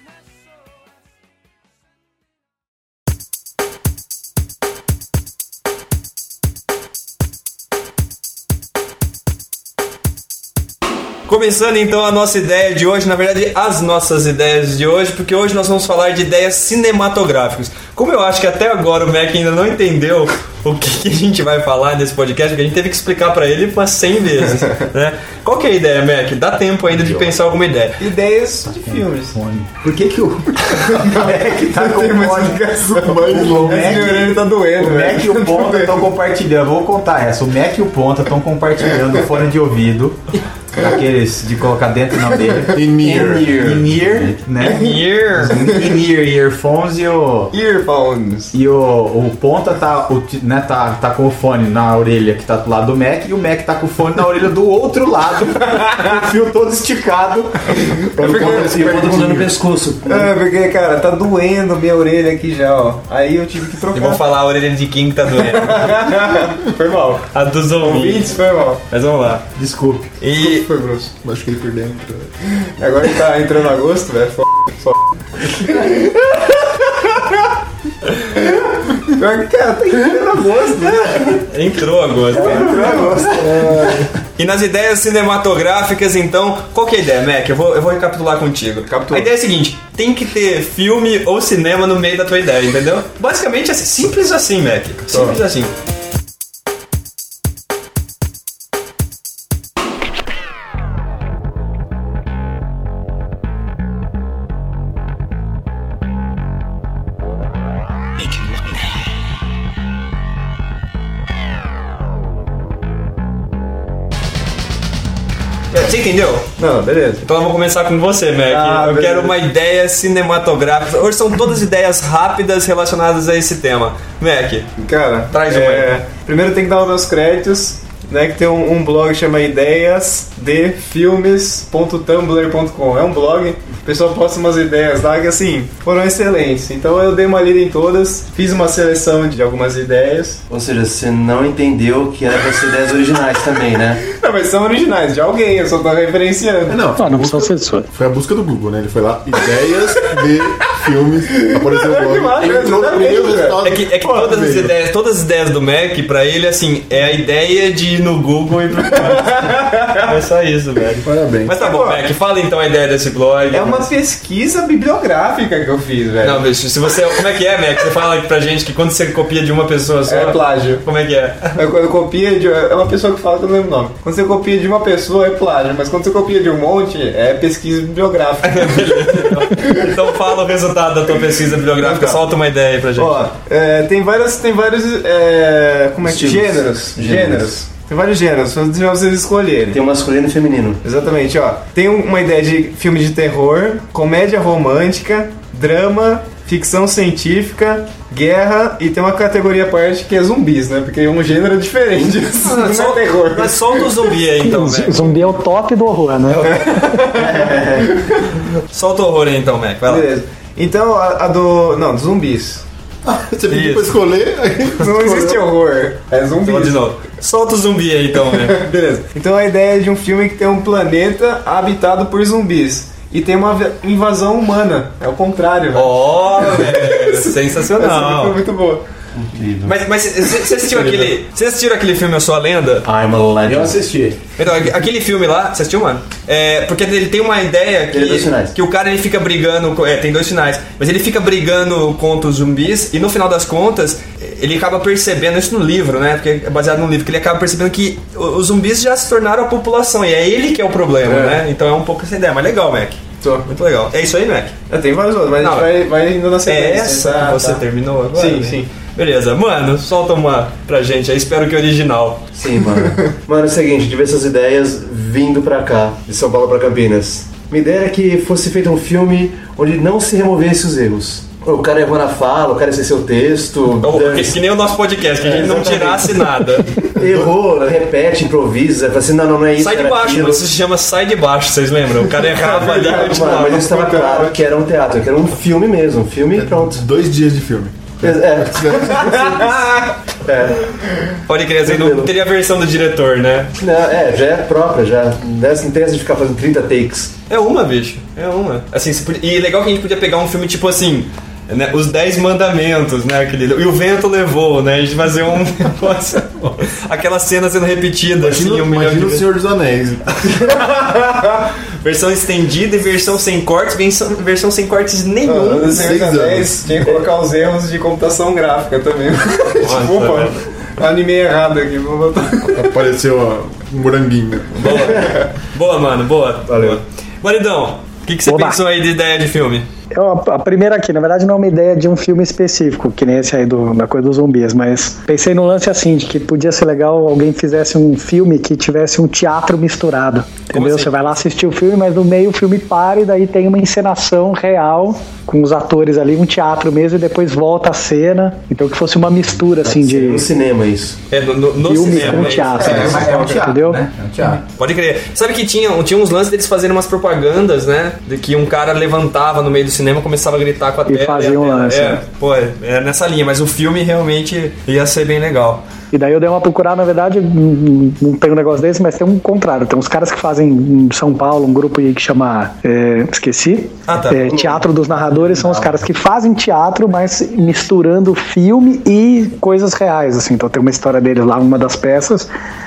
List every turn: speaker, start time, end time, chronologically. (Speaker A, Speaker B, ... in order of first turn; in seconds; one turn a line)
Speaker A: 11.3-28.0
Speaker B: 26.9-27.3
Speaker C: 28.0-29.4
Speaker B: 28.7-32.7
Speaker C: 30.8-36.0
Speaker D: 32.9-34.2
Speaker B: 33.2-40.2
Speaker B: 40.7-47.5
Speaker D: 42.7-43.9
Speaker A: 44.6-45.7
Speaker C: 47.5-48.5
Speaker B: 48.5-59.4
Speaker D: 58.2-59.4
Speaker E: 58.2-60.3
Speaker C: 58.2-58.7
Speaker C: 60.1-64.2
Speaker A: 63.9-66.0
Speaker C: 65.5-67.2
Speaker A: 67.3-68.4
Speaker C: 67.8-68.8
Speaker A: 68.9-69.5
Speaker B: 69.5-70.1
Speaker A: 70.2-70.7
Speaker C: 70.4-71.1
Speaker D: 71.2-72.3
Speaker C: 72.8-76.8
Speaker C: 78.3-81.4
Speaker A: 81.2-83.0
Speaker C: 82.3-84.0
Speaker A: 84.3-95.7
Speaker D: 89.0-89.2
Speaker A: 115.7-116.5
Speaker C: 116.6-117.2
Speaker A: 117.2-124.7
Speaker C: 118.5-119.3
Speaker C: 124.8-140.4
Speaker A: 125.3-125.9
Speaker E: 140.5-144.0
Speaker C: 144.1-146.8
Speaker D: 146.7-154.7
Speaker F: 147.0-147.9
Speaker C: 151.3-153.6
Speaker A: 153.6-163.9
Speaker C: 159.1-160.0
Speaker D: 161.0-161.5
Speaker C: 161.6-162.0
Speaker C: 163.5-166.4
Speaker A: 166.2-171.5
Speaker C: 170.1-170.8
Speaker C: 171.6-179.9
Speaker A: 178.4-183.3
Speaker C: 181.8-182.2
Speaker C: 183.0-189.8
Speaker E: 186.0-187.6
Speaker E: 189.7-190.8
Speaker C: 190.8-204.1
Speaker A: 202.4-205.2
Speaker F: 204.4-207.0
Speaker C: 206.4-208.3
Speaker E: 207.1-208.0
Speaker A: 208.7-210.1
Speaker C: 209.8-212.6
Speaker D: 213.0-215.4
Speaker A: 213.5-214.0
Speaker C: 214.8-216.8
Speaker A: 216.4-218.6
Speaker C: 218.2-228.8
Speaker A: 225.7-228.4
Speaker E: 229.1-229.8
Speaker A: 229.6-232.8
Speaker E: 232.8-233.8
Speaker B: 233.4-234.2
Speaker A: 234.4-254.6
Speaker E: 237.9-238.5
Speaker C: 251.1-251.4
Speaker C: 254.7-257.6
Speaker A: 255.4-255.7
Speaker A: 256.4-262.2
Speaker C: 258.1-258.6
Speaker E: 262.3-274.4
Speaker A: 273.8-276.7
Speaker E: 275.2-276.2
Speaker E: 276.9-280.4
Speaker D: 277.0-277.3
Speaker A: 279.6-283.7
Speaker C: 282.3-284.4
Speaker E: 282.9-286.8
Speaker D: 286.4-289.2
Speaker E: 288.0-290.8
Speaker A: 291.3-293.5
Speaker E: 291.6-292.1
Speaker E: 293.6-297.1
Speaker A: 297.3-309.3
Speaker D: 308.2-310.5
Speaker C: 311.1-311.3
Speaker A: 311.8-315.9
Speaker C: 315.2-322.7
Speaker D: 315.7-316.6
Speaker A: 319.6-320.4
Speaker D: 322.5-324.9
Speaker A: 324.5-329.7
Speaker E: 326.5-326.8
Speaker F: 328.2-328.6
Speaker F: 329.9-350.2
Speaker A: 340.5-341.2
Speaker E: 349.6-351.0
Speaker A: 351.1-353.2
Speaker F: 351.6-353.8
Speaker B: 351.9-354.4
Speaker A: 354.6-365.6
Speaker F: 360.9-362.0
Speaker F: 365.9-382.3
Speaker A: 373.9-374.6
Speaker E: 374.3-375.7